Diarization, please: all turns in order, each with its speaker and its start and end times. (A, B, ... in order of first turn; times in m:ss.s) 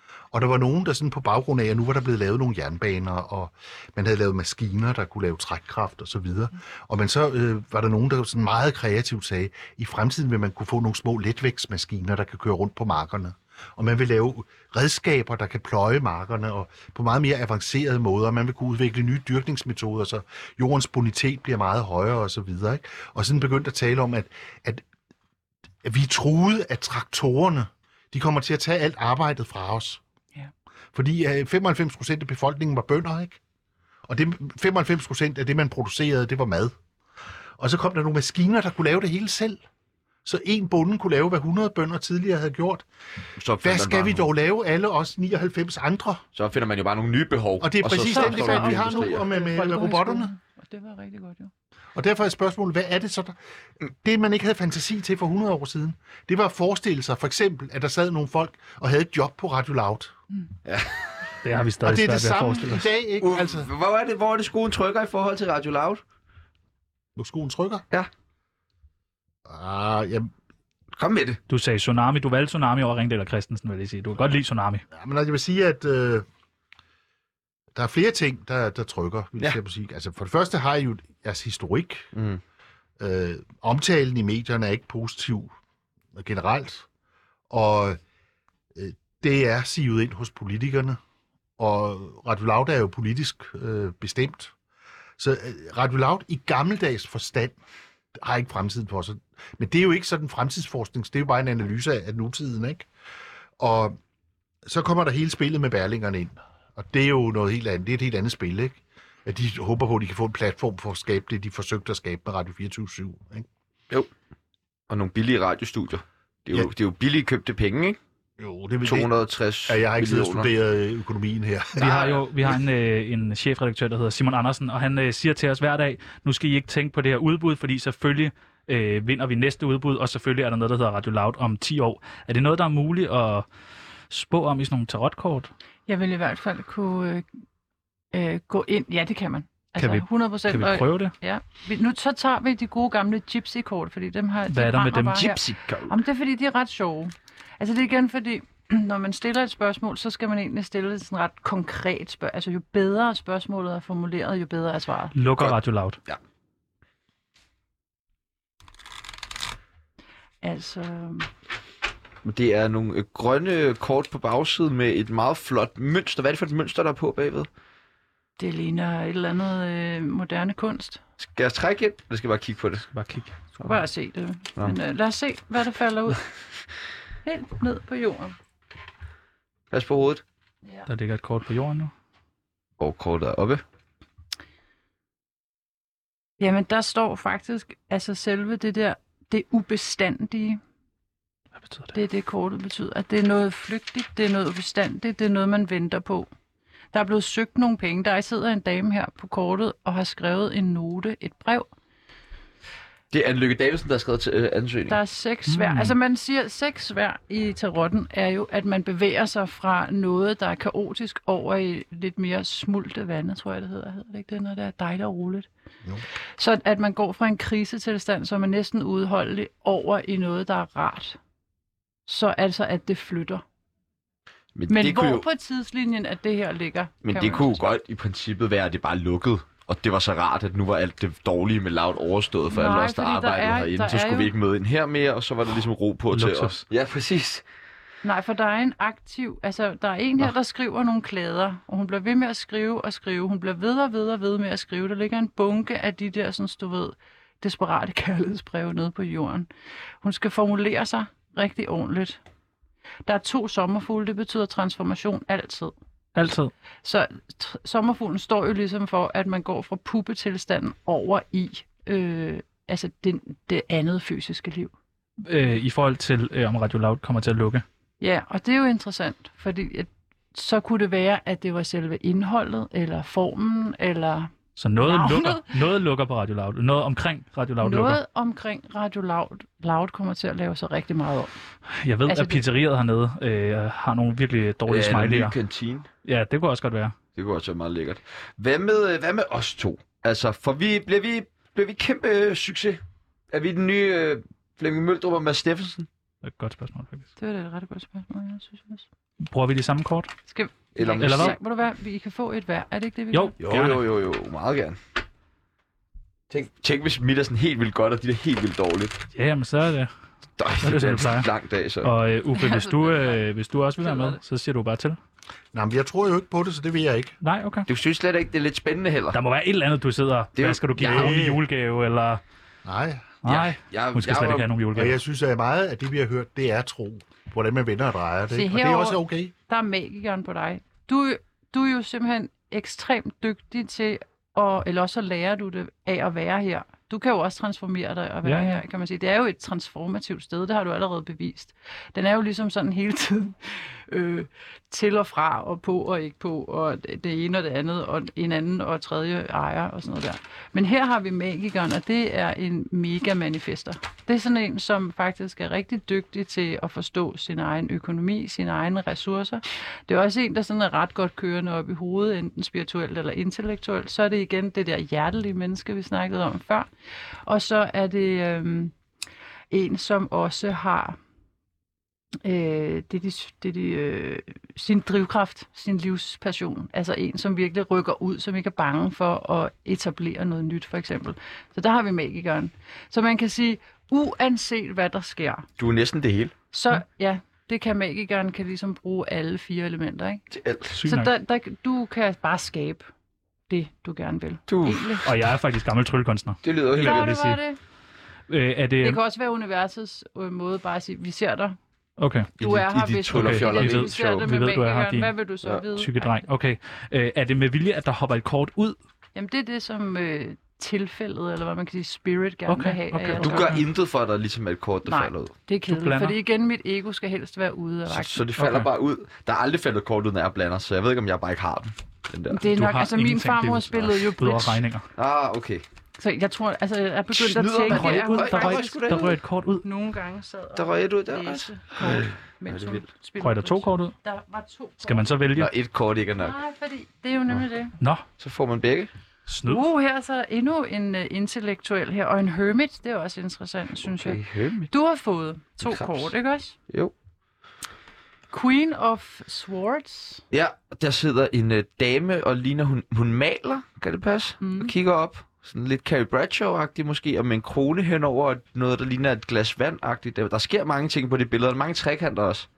0:00.3-0:24.8 A
0:25.8-0:30.0 A
0:30.9-0:33.4 A
0:34.1-0:36.8 A
0:37.6-0:39.6 A
0:40.2-0:42.9 A
0:43.4-0:44.3 B
0:43.6-0:46.2 A
0:46.4-0:49.2 B
0:47.6-0:50.3 A
0:48.0-0:51.5 C
0:52.0-0:53.4 A
0:53.9-1:00.2 A
1:00.6-1:01.2 B
1:01.4-1:02.8 D
1:01.8-1:03.7 A
1:03.2-1:06.0 B
1:07.2-1:07.8 A
1:09.5-1:10.3 A
1:11.0-1:11.4 B
1:11.5-1:14.8 D
1:14.9-1:16.3 A
1:17.8-1:22.1 A
1:22.1-1:22.4 B
1:23.0-1:25.5 A
1:26.2-1:26.9 A
1:27.5-1:28.0 A
1:28.8-1:31.0 A
1:31.6-1:34.5 A
1:35.2-1:37.6 A
1:38.2-1:42.9 A
1:43.6-1:44.0 A
1:44.7-1:53.5 A
1:54.9-1:58.0 B
1:58.4-1:59.1 A
1:58.8-2:00.5 B
1:59.7-2:02.0 A
2:01.8-2:02.6 B
2:01.8-2:13.5 D
2:14.1-2:15.5 D
2:15.9-2:17.3 C
2:18.1-2:35.2 C
2:19.8-2:21.1 D
2:24.5-2:25.2 D
2:25.2-2:26.0 B
2:35.2-2:36.0 D
2:35.4-2:36.2 B
2:40.4-2:41.3 C
2:42.2-2:47.5 B
2:48.4-2:51.0 C
2:51.2-2:52.9 B
2:52.9-2:53.4 D
2:53.6-2:56.2 C
2:57.2-2:58.4 C
2:59.7-3:00.2 B
3:00.9-3:01.9 D
3:02.8-3:03.6 B
3:06.4-3:10.6 C
3:11.6-3:11.9 D
3:11.9-3:16.3 C
3:16.9-3:21.7 C
3:23.1-3:25.0 B
3:24.9-3:35.5 C
3:25.5-3:26.0 D
3:36.4-3:41.2 C
3:42.1-3:43.4 C
3:44.6-3:45.3 B
3:44.7-3:47.7 C
3:47.0-3:57.4 B
3:52.5-3:54.3 C
3:56.1-3:56.6 D
3:58.0-4:09.5 C
4:10.0-4:12.2 C
4:13.1-4:15.7 C
4:16.2-4:16.5 D
4:16.8-4:24.7 C
4:25.2-4:27.6 D
4:28.0-4:35.6 C
4:34.6-4:38.0 D
4:37.6-4:41.3 C
4:41.8-4:45.4 D
4:42.1-4:42.4 C
4:44.7-4:45.9 B
4:46.0-4:47.0 D
4:47.2-4:55.9 B
4:56.2-4:57.1 D
4:57.2-4:58.9 C
4:59.3-5:00.1 D
5:00.3-5:03.4 C
5:00.8-5:01.4 B
5:01.0-5:01.4 D
5:03.1-5:03.8 D
5:03.4-5:04.8 B
5:06.3-5:09.0 B
5:09.1-5:09.9 D
5:10.4-5:11.9 B
5:10.6-5:11.3 D
5:11.8-5:15.0 D
5:12.3-5:13.3 C
5:13.8-5:14.2 C
5:15.5-5:17.2 A
5:17.2-5:17.7 D
5:17.7-5:19.2 B
5:19.1-5:22.2 D
5:20.4-5:21.2 B
5:20.8-5:21.4 A
5:22.6-5:23.1 A
5:23.2-5:25.0 D
5:23.2-5:24.5 B
5:24.7-5:29.3 A
5:28.3-6:06.7 C
5:38.2-5:38.6 D
6:07.3-6:08.8 C
6:09.5-6:11.0 C
6:12.2-6:25.5 C
6:25.6-6:26.3 B
6:26.5-6:30.2 C
6:30.3-6:30.7 B
6:30.7-6:31.1 D
6:30.8-6:32.9 C
6:33.5-6:35.1 C
6:34.5-6:35.0 B
6:35.0-6:37.4 D
6:36.4-6:37.2 B
6:36.8-6:37.6 C
6:38.3-6:39.0 D
6:38.8-6:41.6 C
6:42.0-6:42.3 D
6:42.4-6:44.3 B
6:42.4-6:46.2 C
6:43.1-6:45.1 D
6:45.8-6:48.8 D
6:49.2-6:53.6 C
6:52.5-6:53.6 D
6:53.2-6:55.3 B
6:54.9-6:58.3 C
6:55.7-6:56.2 D
6:57.9-7:02.4 B
6:58.4-6:58.7 D
7:02.3-7:04.6 C
7:02.4-7:04.9 D
7:05.0-7:05.6 B
7:06.0-7:15.1 C
7:07.1-7:09.2 B
7:07.7-7:09.6 D
7:10.6-7:12.8 B
7:13.2-7:13.9 D
7:14.8-7:15.5 D
7:15.4-7:16.3 B
7:16.2-7:17.8 C
7:17.8-7:18.0 D
7:18.2-7:18.9 B
7:19.3-7:19.6 D
7:19.4-7:26.6 C
7:23.8-7:24.7 B
7:25.6-7:26.1 B
7:28.3-7:30.2 C
7:30.3-7:42.5 B
7:34.4-7:34.7 C